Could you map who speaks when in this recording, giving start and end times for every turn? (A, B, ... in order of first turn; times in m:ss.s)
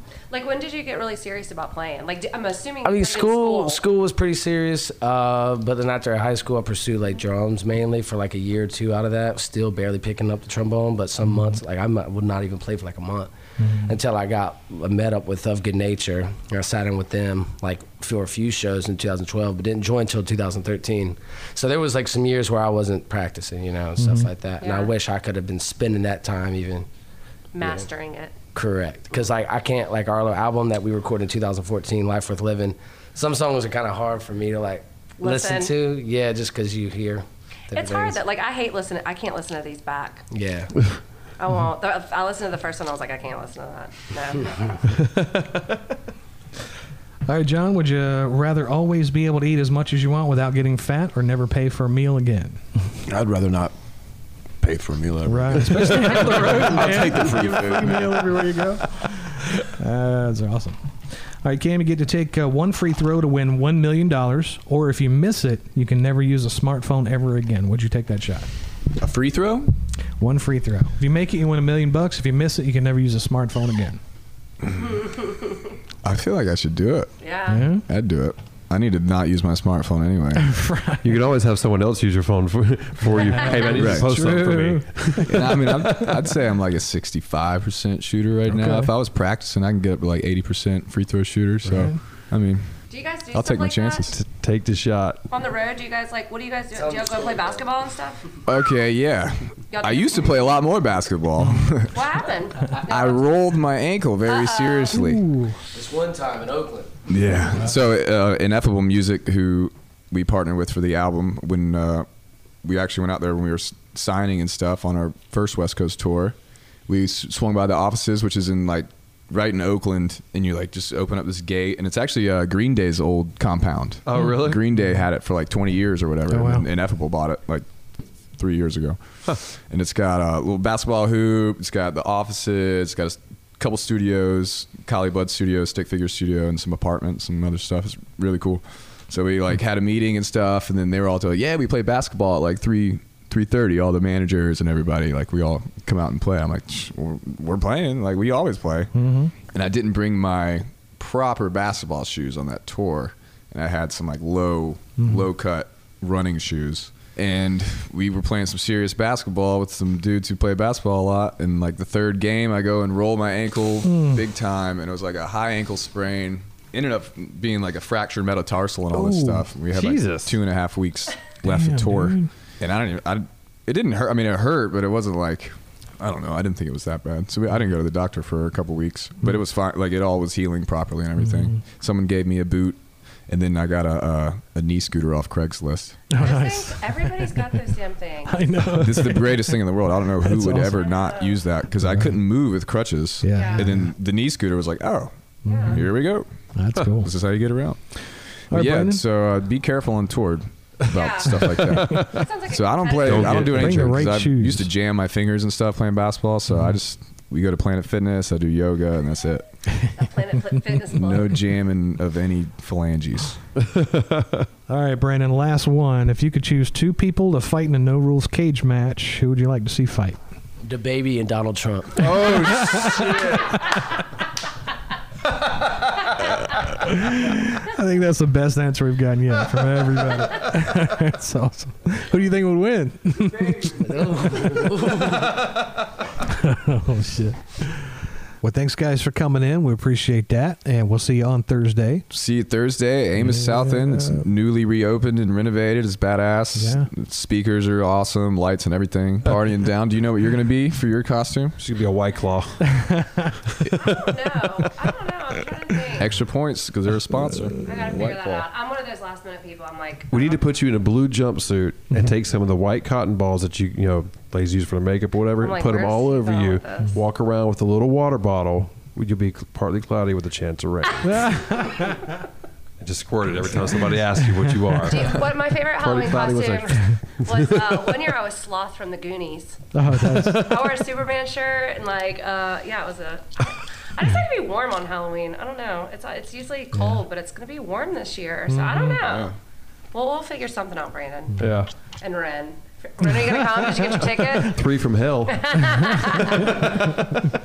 0:00.3-0:03.8 A
0:02.8-0:13.3 B
0:11.3-0:11.5 C
0:13.6-0:13.9 C
0:13.8-0:26.9 B
0:24.0-0:24.3 C
0:24.6-0:24.9 A
0:27.5-0:28.4 A
0:27.6-0:27.9 B
0:28.6-0:38.2 B
0:35.2-0:35.7 A
0:37.7-0:40.3 A
0:40.3-0:40.7 B
0:41.4-0:44.8 A
0:47.3-0:52.6 C
0:53.1-0:53.7 D
0:54.6-0:58.6 D
0:55.3-1:00.8 C
1:01.4-1:08.5 C
1:09.0-1:09.7 E
1:10.2-1:14.0 C
1:16.0-1:17.1 E
1:17.2-1:17.7 A
1:17.5-1:17.9 C
1:17.8-1:20.5 E
1:20.4-1:21.0 C
1:21.0-1:26.2 F
1:23.1-1:26.0 C
1:23.7-1:24.4 E
1:25.2-1:32.7 E
1:28.5-1:28.9 C
1:31.7-1:32.0 C
1:32.9-1:34.1 A
1:33.3-1:34.2 E
1:34.1-1:35.2 F
1:35.3-1:38.2 A
1:36.8-1:37.6 B
1:38.5-1:42.0 E
1:39.7-1:40.4 A
1:41.4-1:41.7 C
1:41.9-1:43.3 A
1:42.7-1:45.2 E
1:44.3-1:45.0 A
1:44.9-1:45.6 C
1:45.7-1:47.0 B
1:47.1-1:52.1 E
1:52.6-1:56.4 E
1:56.9-2:07.7 E
2:04.1-2:04.6 F
2:06.3-2:06.7 C
2:08.4-2:28.9 E
2:29.0-2:29.3 C
2:29.5-3:06.0 E
2:43.8-2:44.2 C
2:48.9-2:49.5 C
2:49.7-2:50.4 F
2:51.4-2:52.3 C
3:01.3-3:01.6 C
3:06.1-3:07.5 C
3:06.2-3:08.4 A
3:08.3-3:09.6 C
3:08.6-3:16.3 E
3:10.2-3:10.8 C
3:10.7-3:11.4 A
3:11.8-3:12.1 C
3:13.2-3:13.9 C
3:13.3-3:13.7 A
3:15.5-3:15.8 A
3:15.5-3:15.9 C
3:16.6-3:17.1 C
3:17.0-3:17.8 E
3:18.4-3:29.4 E
3:18.5-3:19.0 C
3:20.9-3:23.4 A
3:21.4-3:22.1 F
3:23.0-3:24.0 F
3:23.2-3:24.7 C
3:30.0-3:31.3 A
3:30.9-3:33.4 E
3:33.6-3:34.5 F
3:34.7-3:40.2 C
3:40.6-3:42.2 B
3:42.0-3:43.2 F
3:42.1-3:43.4 C
3:42.9-3:43.6 D
3:46.2-3:53.8 C
3:53.8-3:55.5 B
3:56.3-4:02.1 C
4:02.1-4:11.6 E
4:03.2-4:04.2 C
4:06.6-4:06.9 C
4:11.6-4:12.7 F
4:12.7-4:13.4 C
4:13.7-4:16.1 A
4:16.0-4:17.6 E
4:17.6-4:20.4 A
4:20.1-4:31.3 F
4:25.4-4:26.9 A
4:31.0-4:32.1 C
4:32.8-4:37.8 F
4:34.9-4:39.6 A
4:39.7-4:40.6 C
4:39.9-4:40.4 F
4:40.3-4:49.3 A
4:46.7-4:47.0 C
4:48.5-4:49.0 C
4:49.0-4:49.4 E
4:49.9-4:51.4 A
4:51.4-4:51.7 F
4:52.0-4:54.6 A
4:54.4-4:57.2 F
4:55.4-4:56.5 A